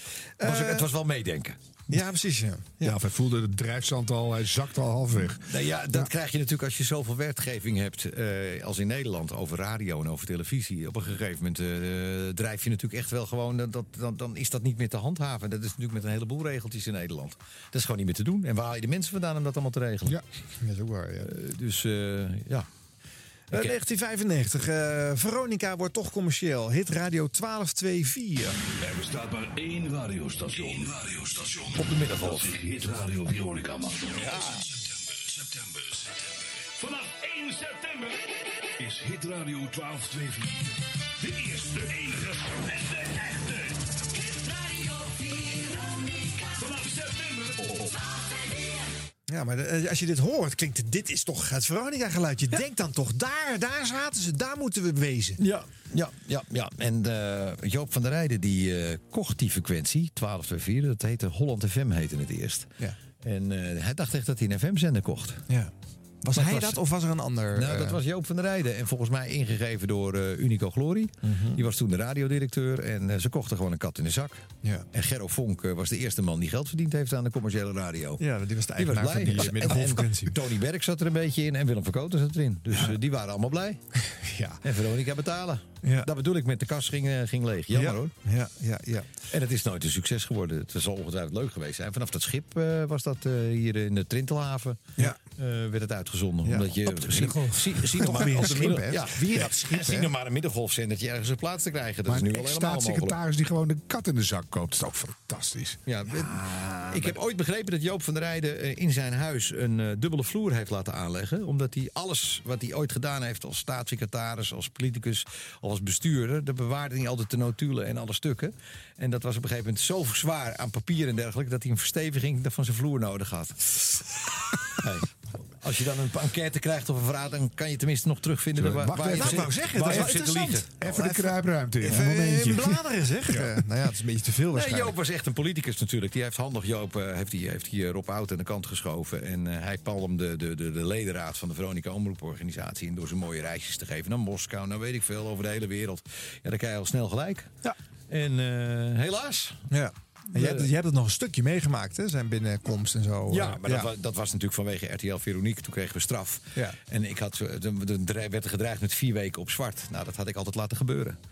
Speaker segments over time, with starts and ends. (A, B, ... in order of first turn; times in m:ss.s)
0:00.4-0:00.9 A
0:00.4-0:01.6 B
0:01.9-0:03.0 A
0:02.8-0:06.1 C
0:05.4-0:20.2 B
0:20.6-0:21.3 A
0:21.2-0:22.7 B
0:23.5-0:28.6 A
0:30.4-0:30.6 D
0:31.7-0:32.6 B
0:36.8-0:37.9 D
0:38.8-0:40.4 D
0:41.4-0:42.2 D
0:49.3-0:55.4 A
0:55.4-1:05.4 B
1:05.5-1:08.0 A
1:06.3-1:06.8 B
1:07.5-1:18.2 B
1:11.2-1:11.6 A
1:18.2-1:20.4 A
1:18.8-1:23.8 B
1:24.1-1:24.6 A
1:24.6-1:28.1 B
1:27.7-1:29.1 A
1:29.3-1:43.2 B
1:36.4-1:40.1 A
1:42.1-1:45.8 C
1:45.9-2:04.0 B
1:46.6-1:47.1 A
2:04.6-2:11.0 B
2:08.6-2:13.6 C
2:09.1-2:15.0 A
2:14.5-2:27.6 B
2:28.1-2:29.7 B
2:29.7-2:33.9 A
2:30.4-2:30.7 B
2:33.3-2:41.2 B